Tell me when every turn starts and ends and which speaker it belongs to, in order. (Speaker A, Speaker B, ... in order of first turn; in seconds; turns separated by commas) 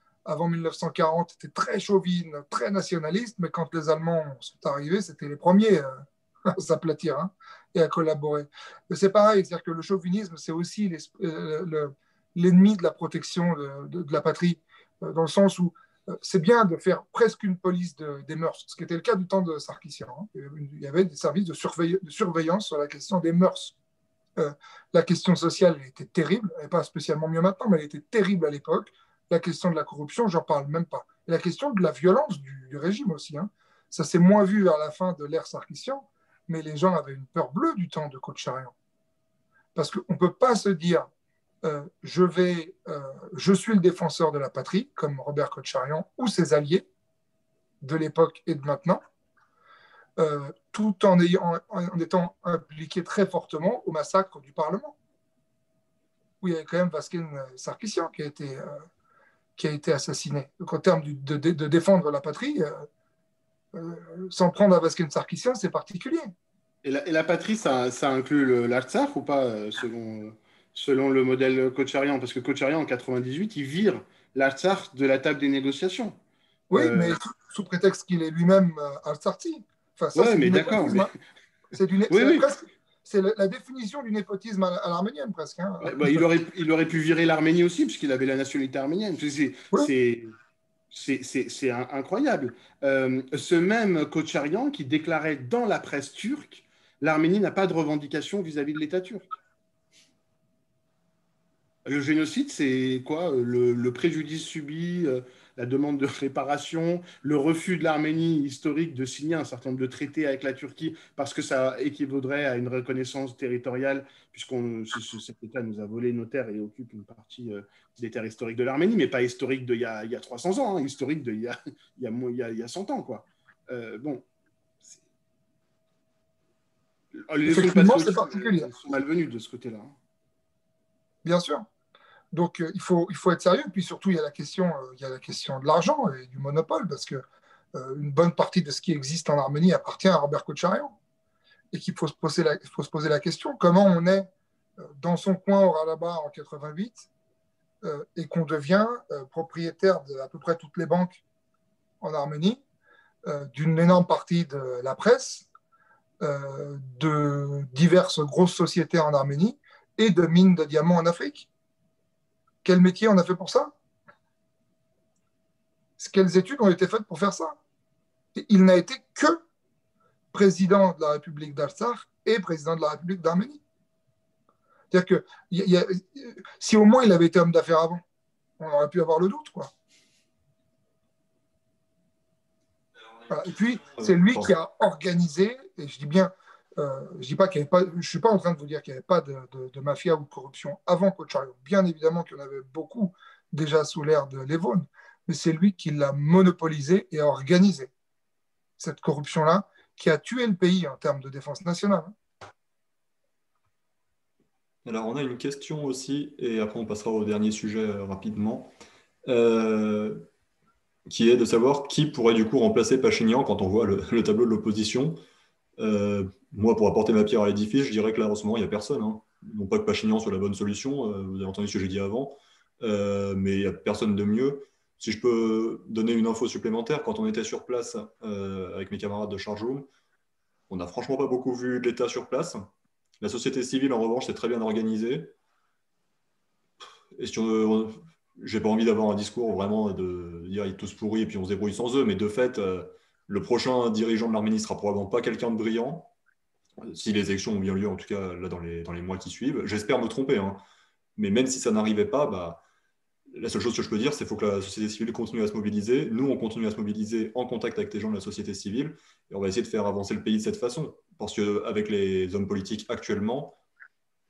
Speaker A: 0.2-23.8, Speaker A: 24.4-38.7, Speaker A: 39.7-41.1, Speaker A: 41.6-46.9, Speaker A: 47.8-49.0, Speaker A: 50.2-54.9, Speaker A: 56.4-58.8, Speaker A: 59.6-62.9, Speaker A: 63.7-66.3, Speaker B: 66.8-76.2, Speaker A: 76.7-81.1, Speaker B: 76.7-77.2, Speaker B: 80.1-81.1, Speaker A: 81.7-86.3, Speaker B: 82.1-82.5, Speaker B: 85.8-90.3, Speaker B: 90.9-99.3, Speaker B: 101.8-124.2, Speaker B: 127.1-129.9, Speaker A: 127.5-128.7, Speaker A: 131.2-131.7, Speaker A: 132.3-137.2, Speaker A: 137.7-140.9, Speaker A: 141.7-144.3, Speaker A: 144.8-147.1, Speaker A: 147.8-151.2, Speaker A: 152.0-152.6, Speaker A: 153.2-155.5, Speaker A: 156.2-161.5, Speaker A: 162.6-163.7, Speaker A: 166.0-167.6, Speaker A: 168.3-169.4, Speaker A: 170.3-173.6, Speaker A: 174.9-178.0, Speaker A: 178.6-179.7, Speaker C: 183.0-184.5, Speaker A: 183.3-197.9, Speaker A: 198.8-202.1, Speaker C: 204.8-208.7, Speaker C: 209.2-210.2, Speaker C: 211.1-215.2, Speaker C: 215.8-229.9, Speaker C: 230.7-232.6, Speaker C: 233.2-235.3, Speaker C: 237.2-246.1, Speaker C: 246.8-250.6, Speaker C: 251.2-252.6, Speaker C: 253.3-263.6